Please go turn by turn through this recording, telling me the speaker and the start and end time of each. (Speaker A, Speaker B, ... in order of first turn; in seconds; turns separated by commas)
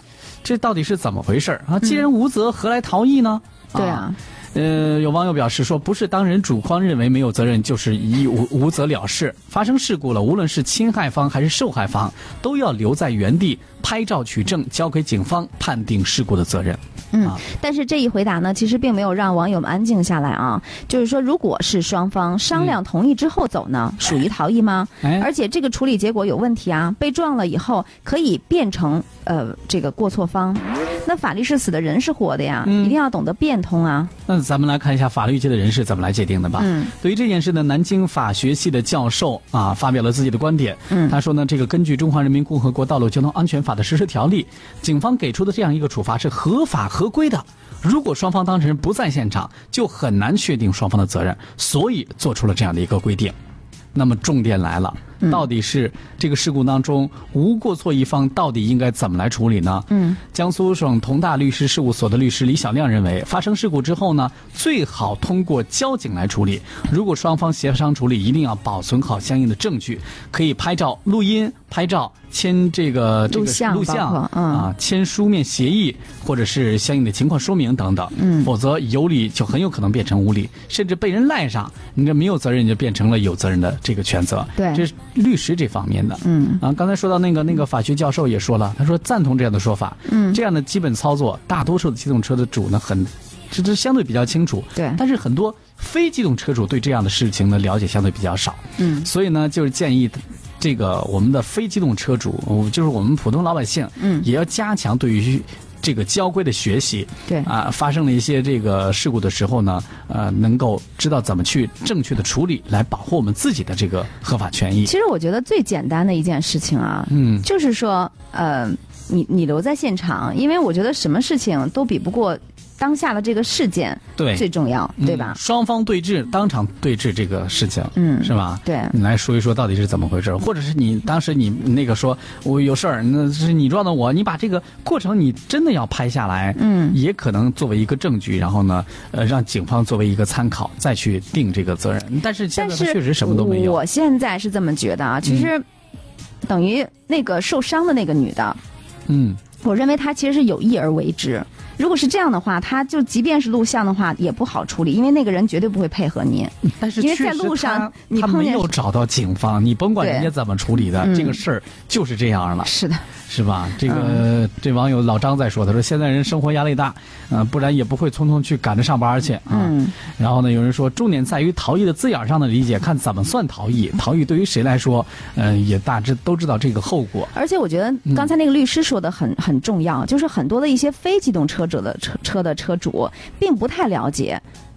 Speaker A: 0.4-17.4, Speaker B: 3.7-4.2, Speaker B: 17.1-34.1, Speaker A: 25.0-25.3, Speaker A: 32.6-32.9, Speaker A: 34.3-53.3, Speaker B: 36.6-36.9, Speaker B: 40.9-41.1, Speaker A: 53.9-114.9, Speaker B: 59.9-60.2, Speaker B: 73.3-74.7, Speaker B: 78.2-78.5, Speaker B: 84.6-84.8, Speaker B: 86.2-86.6, Speaker B: 90.1-90.4, Speaker B: 98.8-99.1, Speaker B: 104.0-104.2, Speaker B: 114.8-125.4, Speaker A: 117.1-117.5, Speaker A: 124.2-124.4, Speaker A: 125.0-143.8, Speaker B: 127.9-128.9, Speaker B: 136.6-137.0, Speaker B: 142.6-145.6, Speaker B: 146.4-148.6, Speaker A: 149.1-149.4, Speaker B: 149.6-158.7, Speaker A: 156.6-162.7, Speaker B: 160.0-160.3, Speaker B: 161.0-161.4, Speaker B: 162.6-163.0, Speaker A: 163.3-177.3, Speaker B: 163.9-164.2, Speaker B: 169.5-169.9, Speaker B: 177.3-184.4